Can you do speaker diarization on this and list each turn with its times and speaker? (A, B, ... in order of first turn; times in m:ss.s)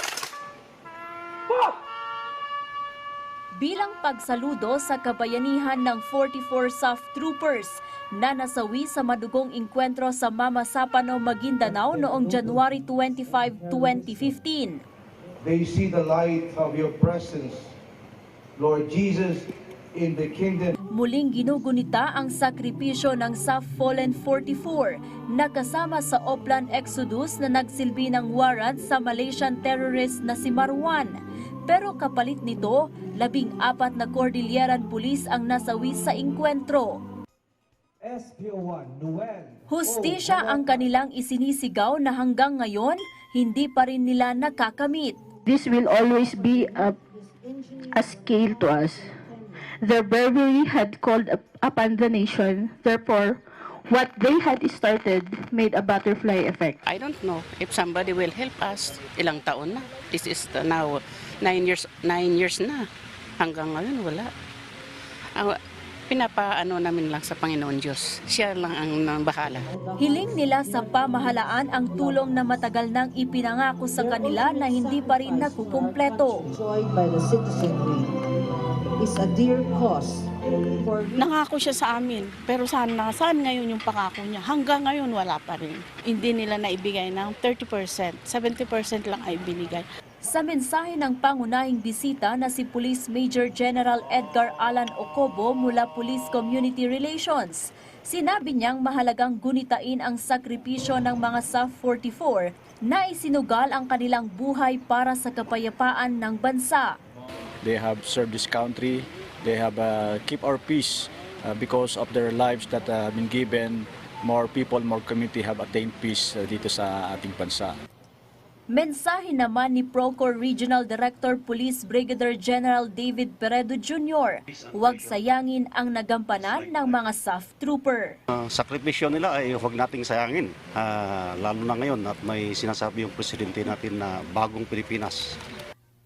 0:03.6-0:14.8 A
0:11.9-0:12.7 B
0:15.4-0:17.7 B
0:18.6-0:20.8 B
0:20.9-0:37.0 A
0:38.0-0:40.7 B
0:39.7-0:45.2 A
0:45.4-0:47.0 C
0:46.3-0:47.9 D
0:47.9-0:49.1 C
0:49.8-0:56.8 C
0:56.8-1:02.8 E
1:03.4-1:04.3 E
1:06.1-1:09.6 E
1:09.7-1:12.6 D
1:10.0-1:16.4 A
1:14.0-1:18.1 D
1:19.0-1:21.3 D
1:21.2-1:29.8 F
1:30.2-1:46.9 A
1:47.6-1:57.8 G
1:58.7-2:08.2 A
2:08.3-2:15.2 H